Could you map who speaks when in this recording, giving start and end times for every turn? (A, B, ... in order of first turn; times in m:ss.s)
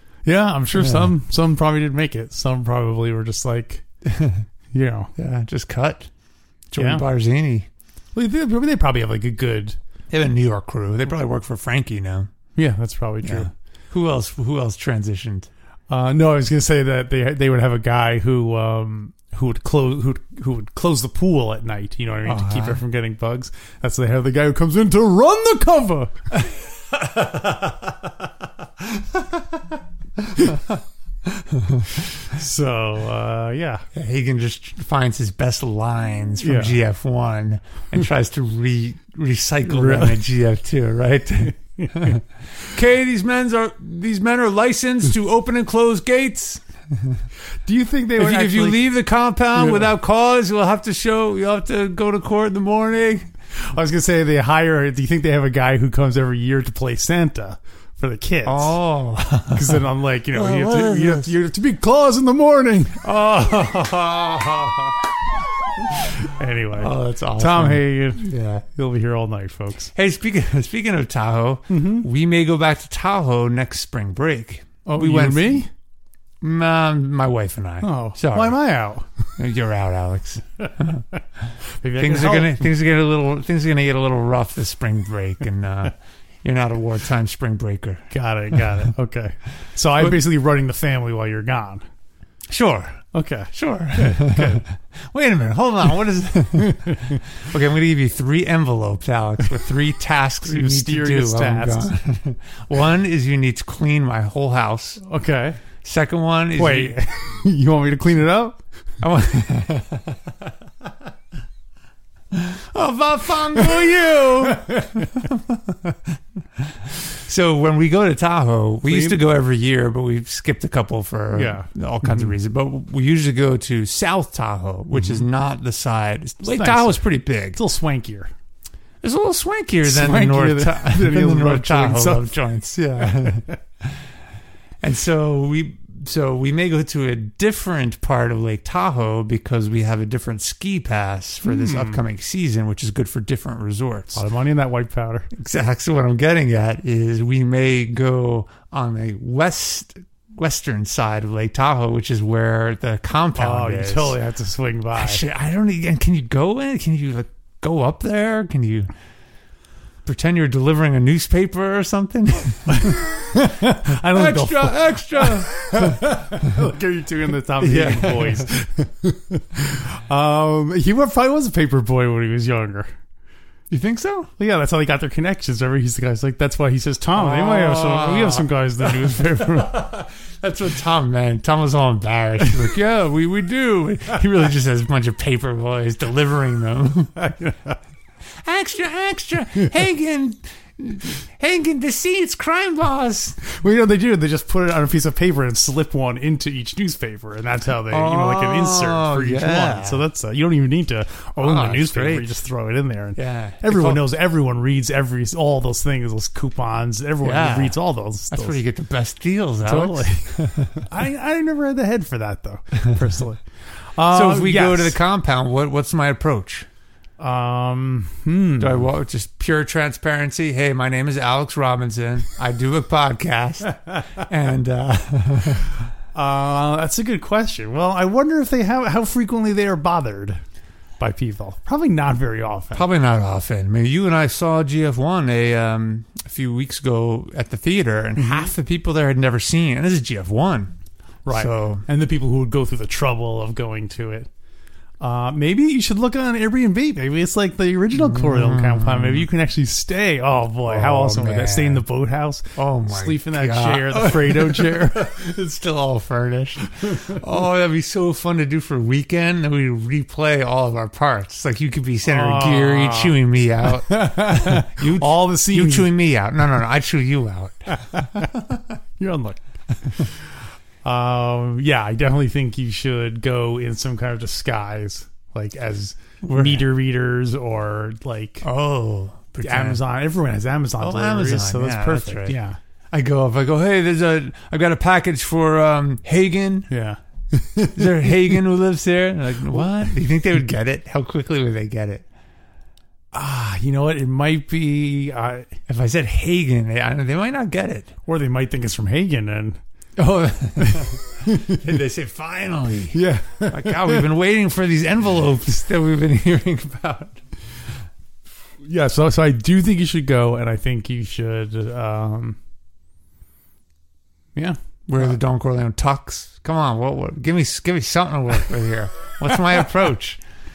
0:00.2-0:03.8 A
0:00.8-0:01.1 B
0:04.0-0:04.4 B
0:04.7-0:05.1 A
0:05.2-0:06.1 B
0:06.7-0:07.7 B
0:06.8-0:07.0 A
0:08.2-0:09.8 A
0:10.1-0:12.3 B
0:12.6-0:13.5 A
0:13.2-0:15.5 B
0:15.9-0:26.5 A
0:22.2-0:22.8 B
0:30.3-0:32.1 B
0:32.0-0:33.9 A
0:33.9-0:47.2 B
0:36.4-0:36.8 A
0:39.7-0:40.2 A
0:41.8-0:42.2 A
0:47.6-0:48.8 A
0:48.2-0:53.3 B
0:49.6-0:49.9 A
0:53.6-0:58.8 A
0:58.4-1:01.3 B
0:59.5-1:03.0 A
1:03.0-1:05.1 B
1:05.8-1:06.2 B
1:06.1-1:09.9 A
1:06.8-1:08.6 B
1:09.9-1:15.6 B
1:11.7-1:12.1 A
1:14.9-1:15.7 A
1:16.4-1:18.6 B
1:17.8-1:19.1 A
1:19.4-1:21.0 B
1:20.8-1:22.7 A
1:22.0-1:28.1 B
1:28.1-1:31.8 A
1:32.5-1:45.0 B
1:33.1-1:34.6 A
1:36.6-1:37.2 A
1:40.4-1:41.9 A
1:45.0-1:45.6 A
1:45.8-1:47.0 B
1:46.6-1:48.6 A
1:49.0-1:50.5 B
1:52.3-1:56.0 B
1:54.6-1:55.1 A
1:56.6-2:07.6 B
1:58.9-1:59.2 A
2:01.3-2:02.3 A
2:06.4-2:08.3 A
2:09.0-2:14.0 B
2:09.8-2:12.3 A
2:13.0-2:13.6 A
2:14.8-2:24.2 B
2:21.4-2:22.0 A
2:24.1-2:25.3 A
2:25.3-2:34.2 B
2:33.4-2:35.2 A
2:35.0-2:38.9 B
2:40.0-2:46.6 B
2:42.7-2:52.9 A
2:47.6-2:48.5 B
2:53.7-2:54.3 B
2:54.4-2:59.8 A
2:57.2-3:07.1 B
3:07.2-3:07.8 A
3:08.4-3:13.4 B
3:13.4-3:28.6 A
3:17.9-3:20.0 B
3:21.4-3:22.4 B
3:23.2-3:24.0 B
3:27.2-3:27.8 B
3:28.3-3:30.9 B
3:29.6-3:35.0 A
3:34.1-3:36.7 B
3:37.2-3:38.9 A
3:38.6-3:45.7 B
3:46.1-3:50.4 A
3:51.0-3:52.9 A
3:52.7-4:00.7 B
3:58.2-3:58.5 A
4:01.3-4:04.3 A
4:01.3-4:01.8 B
4:05.0-4:15.1 A
4:07.9-4:09.3 B
4:10.6-4:11.8 B
4:12.6-4:28.4 B
4:16.7-4:17.2 A
4:22.0-4:25.9 A
4:27.7-4:28.3 A
4:29.0-4:30.2 A
4:30.8-4:38.5 A
4:36.2-4:36.6 B
4:38.4-4:39.8 B
4:39.4-4:42.6 A
4:40.8-4:42.4 B
4:42.9-4:46.7 B
4:46.7-4:48.3 A
4:47.7-4:52.0 B
4:53.1-4:55.5 A
4:55.7-4:57.9 B
4:58.1-4:59.6 A
5:00.0-5:07.2 B
5:00.6-5:01.6 A
5:02.9-5:04.1 A
5:08.6-5:12.4 A
5:14.4-5:15.2 A
5:14.9-5:20.2 B